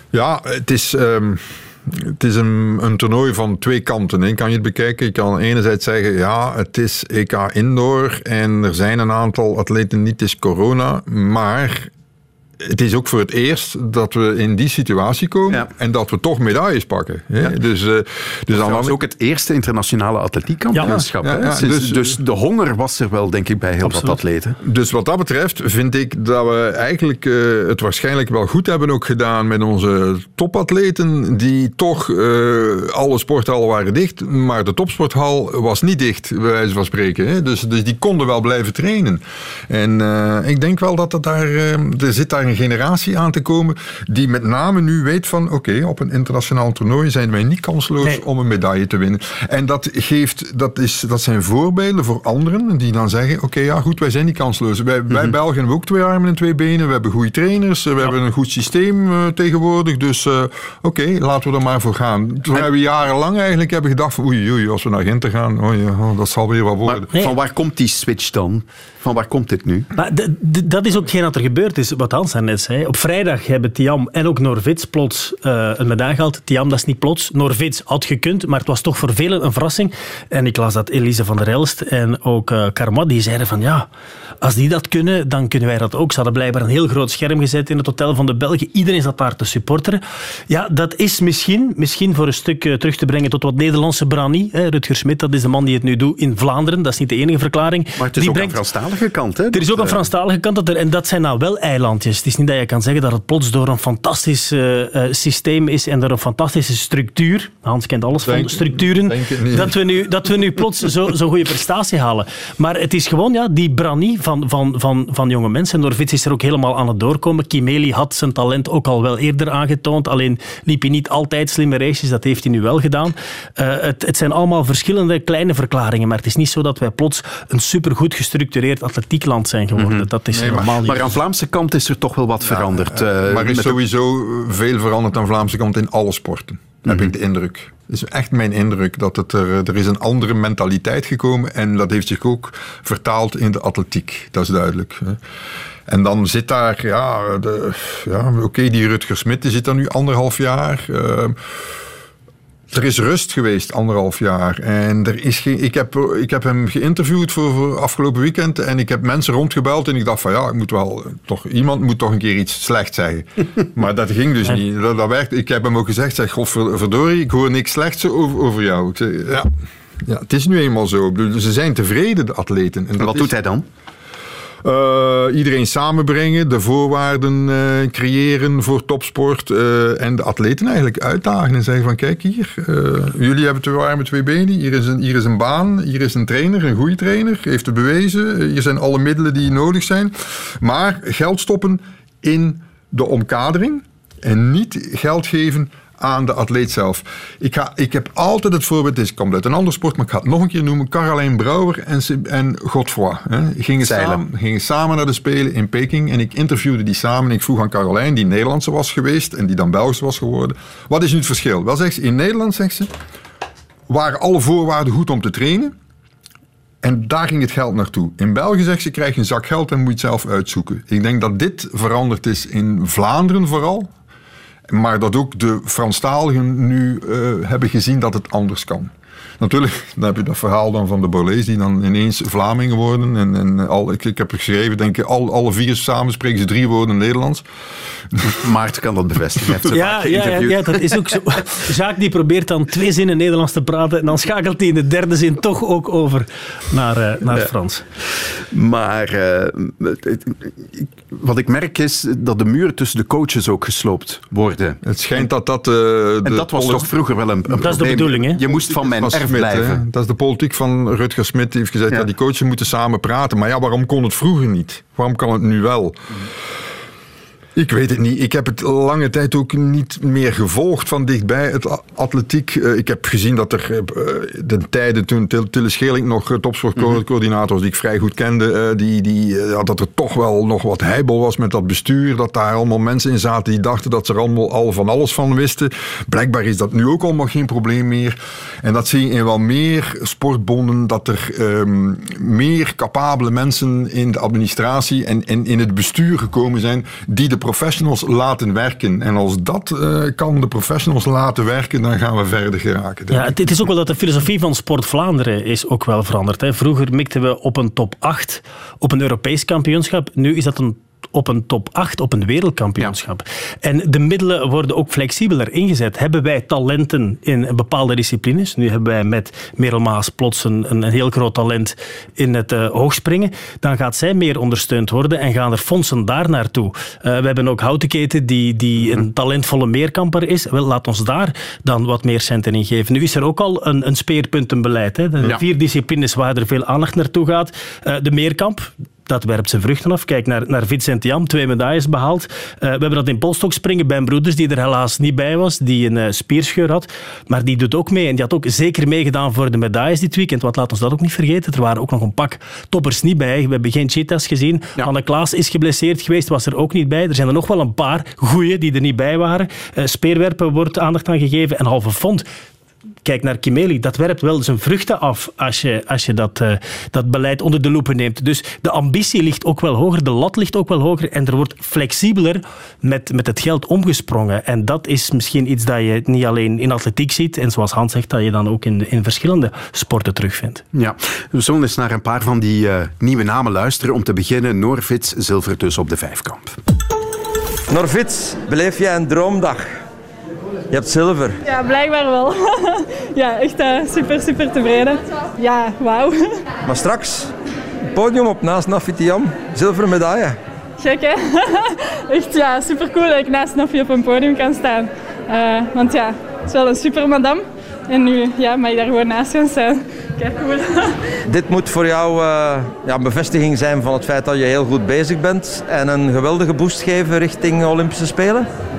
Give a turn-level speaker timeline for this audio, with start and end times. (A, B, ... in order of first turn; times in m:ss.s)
0:00.1-0:11.9 A
0:12.6-0:19.0 A
0:18.5-0:24.6 B
0:20.7-0:21.0 C
0:20.8-0:22.2 A
0:23.8-0:24.2 C
0:24.6-1:07.1 A
0:55.1-0:55.4 B
1:06.8-1:09.9 B
1:10.0-1:23.9 C
1:24.4-1:38.6 C
1:38.0-1:40.1 B
1:39.5-2:11.1 C
1:48.2-1:49.8 A
2:09.8-2:13.8 B
2:10.3-2:11.1 A
2:12.5-2:25.2 A
2:16.9-2:17.1 B
2:25.9-2:31.4 A
2:32.7-2:49.5 A
2:50.0-2:53.3 A
2:53.0-2:53.6 B
2:54.6-3:32.9 A
3:23.8-3:24.2 B
3:33.9-3:35.7 A
3:36.8-3:43.9 A
3:44.7-3:57.4 A
3:58.2-4:01.1 B
3:59.7-4:07.8 C
4:08.2-4:15.3 B
4:14.8-4:16.9 A
4:16.2-4:19.8 B
4:17.6-4:18.4 C
4:18.4-4:26.0 A
4:27.6-5:03.4 A
5:03.1-6:02.2 C
6:03.0-6:20.6 C
6:20.7-6:26.6 B
6:27.7-6:29.7 D
6:30.7-6:31.4 D
6:31.4-6:36.5 E
6:36.6-6:37.3 D
6:37.9-6:40.4 D
6:40.8-6:51.0 E
6:51.2-6:58.5 D